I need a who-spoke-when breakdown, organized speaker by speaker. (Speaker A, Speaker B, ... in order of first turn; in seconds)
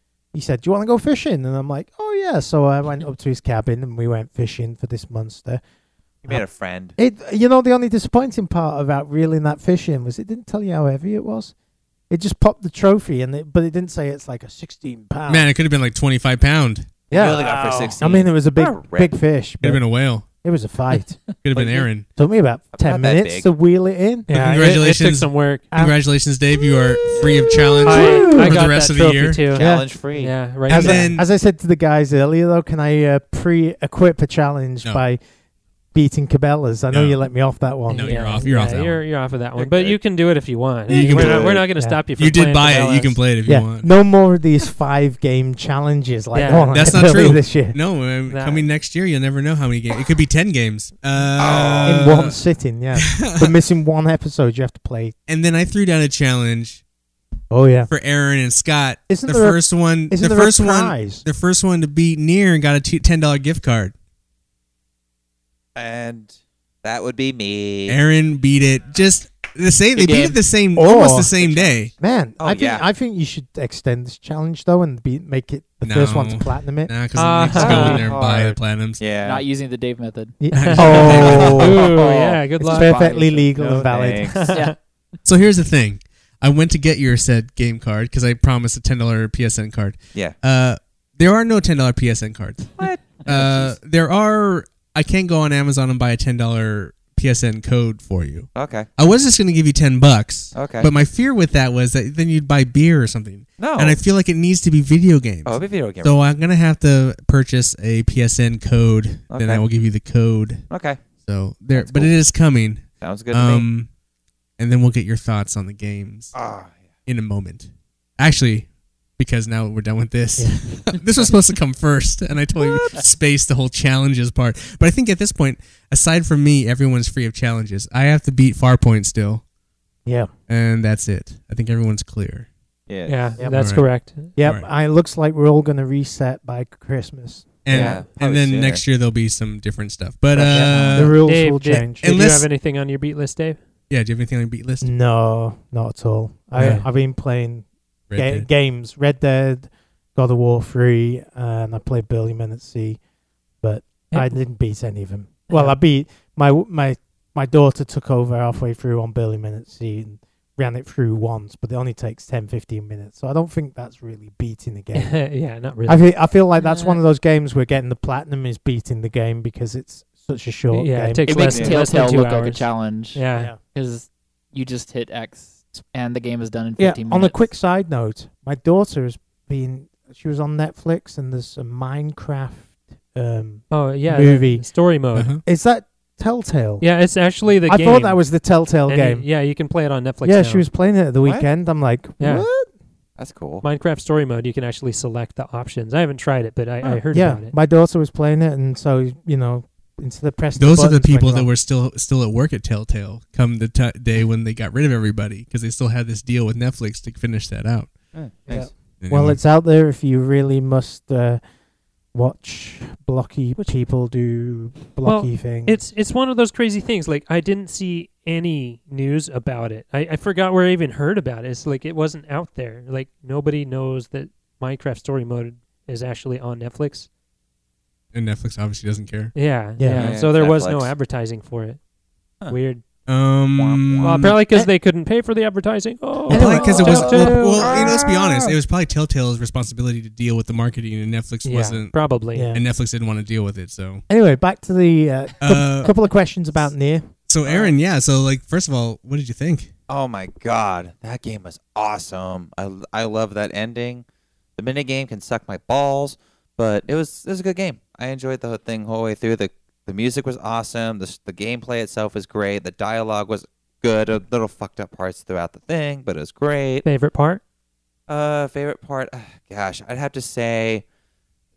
Speaker A: 0.3-5.6, 7.0-11.5, 12.1-15.5, 17.1-21.2, 22.1-24.5, 27.2-28.6, 29.6-29.9, 30.7-35.2, 35.9-38.4, 40.9-42.0, 43.4-47.8, 51.8-55.1, 57.5-57.9, 59.1-61.2, 70.7-71.3, 72.0-76.9, 80.4-81.8, 82.6-84.5, 120.4-120.7, 130.1-130.3, 133.4-133.6, 134.3-137.7, 140.5-142.1, 144.8-153.0, 153.6-165.2, 165.9-171.7, 176.8-184.7, 185.4-186.8, 187.7-189.3, 190.2-192.7, 197.1-201.5, 208.5-211.4, 212.1-215.8, 229.8-230.2, 236.3-237.8, 242.3-242.6, 244.1-247.1
Speaker B: 6.2-7.0, 17.1-19.1, 21.5-21.9, 22.7-23.5, 27.1-27.4, 29.5-30.4, 39.5-40.0, 41.1-41.6, 51.4-52.1, 65.7-68.0, 71.4-71.8, 72.4-72.8, 77.5-79.4, 80.9-82.0, 83.6-84.5, 92.8-93.8, 98.5-98.9, 100.5-100.9, 103.6-104.0, 105.4-106.2, 109.3-109.7, 110.7-111.1, 111.7-112.2, 113.0-113.7, 116.3-116.9, 122.6-123.0, 132.9-133.4, 137.7-138.8, 140.3-141.1, 171.5-171.8, 191.2-191.5, 193.2-193.6, 208.1-208.7, 229.9-230.9, 233.5-234.3, 236.8-238.4, 247.4-247.7, 249.9-254.0, 254.6-266.9, 268.1-270.8
Speaker C: 15.3-17.0, 19.6-20.2, 21.4-22.1, 24.3-29.5, 30.7-31.3, 36.9-37.2, 37.9-39.1, 40.9-41.6, 42.1-43.9, 46.7-52.4, 53.0-53.5, 55.3-56.8, 57.9-63.9, 67.9-71.9, 75.8-79.0, 80.5-81.7, 85.2-113.9, 114.6-116.3, 117.0-129.4, 130.5-132.5, 133.5-134.7, 137.6-141.2, 142.0-142.5, 143.9-144.9, 146.6-146.8, 148.1-148.5, 185.1-185.4, 200.6-208.0, 209.0-209.4, 228.1-229.3, 233.1-234.4, 236.3-242.0, 242.5-244.0, 245.4-245.9, 247.3-249.7
Speaker D: 24.3-25.6, 27.8-31.1, 37.9-43.2, 46.3-47.2, 48.3-48.7, 77.1-78.0, 80.6-83.0, 84.2-84.7, 133.1-134.3, 141.2-143.6, 146.6-146.8, 154.1-154.4, 155.5-155.7, 164.9-166.1, 170.7-173.5, 183.7-185.3, 186.8-188.2, 188.9-190.7, 192.2-192.4, 193.6-197.5, 215.0-227.1, 229.3-231.8, 232.5-232.8, 234.0-237.7, 241.4-242.5, 266.8-267.4
Speaker E: 69.9-70.4, 79.2-80.4, 80.9-83.5, 84.5-84.8, 166.6-167.0, 171.3-173.2, 173.7-177.5